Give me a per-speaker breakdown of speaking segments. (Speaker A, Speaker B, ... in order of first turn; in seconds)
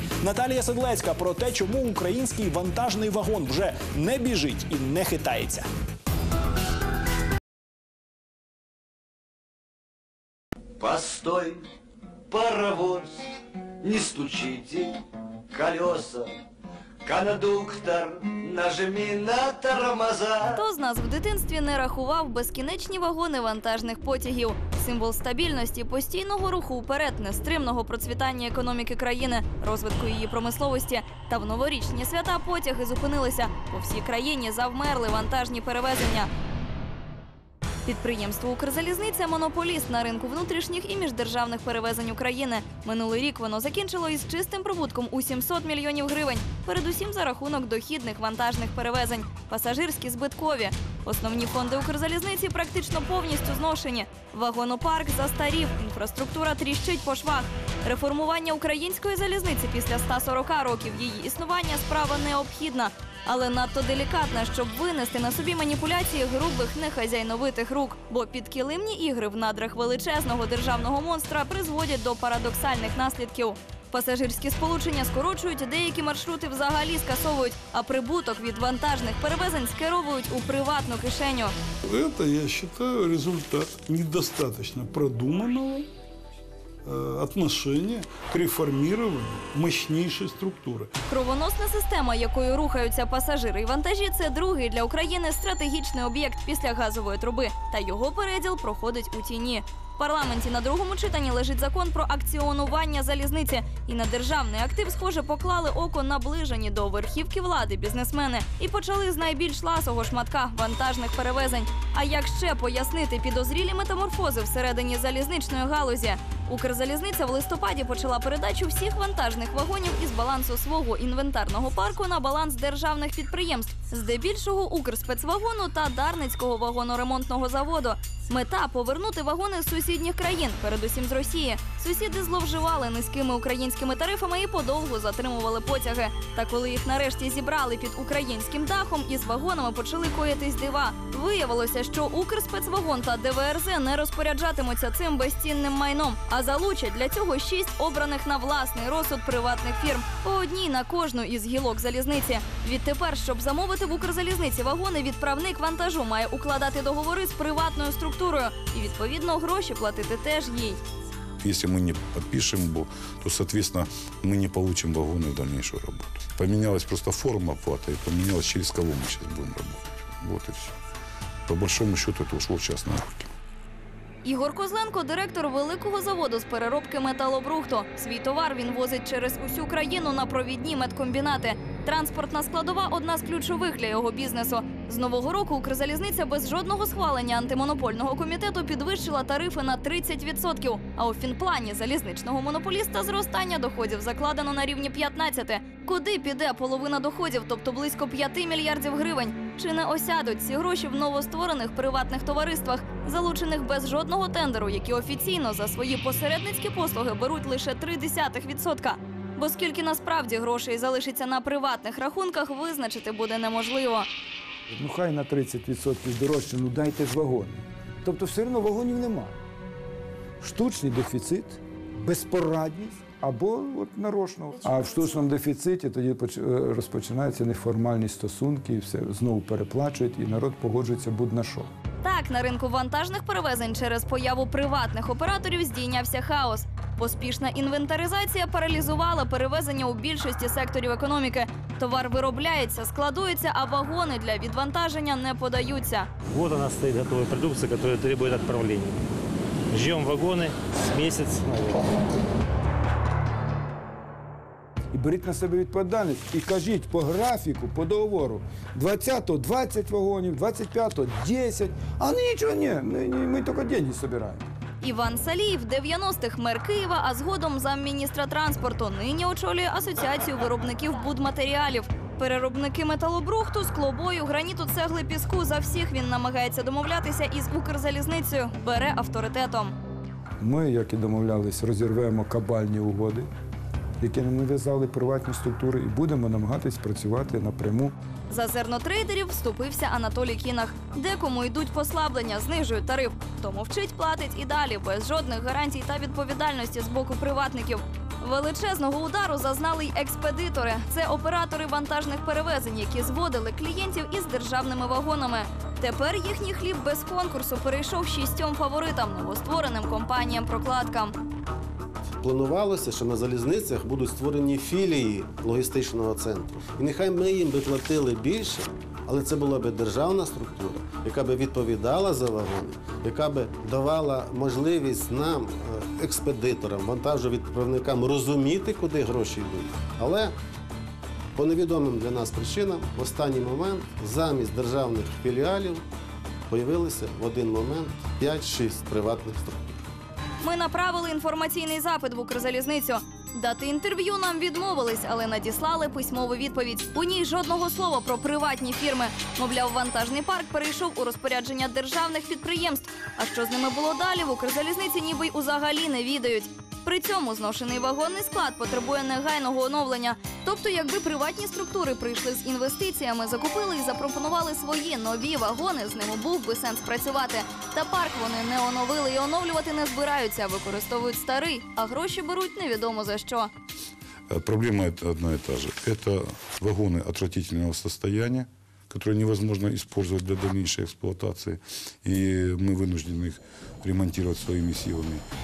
Speaker A: 0.2-5.7
Speaker B: 10.8-11.6, 12.3-13.2, 13.8-15.0, 15.5-16.3, 17.0-20.6
Speaker C: 20.5-36.3, 37.9-81.5, 91.1-160.8, 174.2-214.1, 224.7-225.1, 232.0-246.1, 264.8-279.8, 288.3-311.2, 340.4-373.5
Speaker D: 81.8-85.9, 86.8-90.9
Speaker E: 161.4-170.8, 171.5-173.3, 374.3-385.2
Speaker F: 214.7-219.3, 220.4-231.7, 254.9-264.4, 280.4-283.3, 284.0-287.9
Speaker G: 246.3-249.0, 249.7-251.9
Speaker H: 312.2-330.4, 331.4-335.9, 336.5-339.7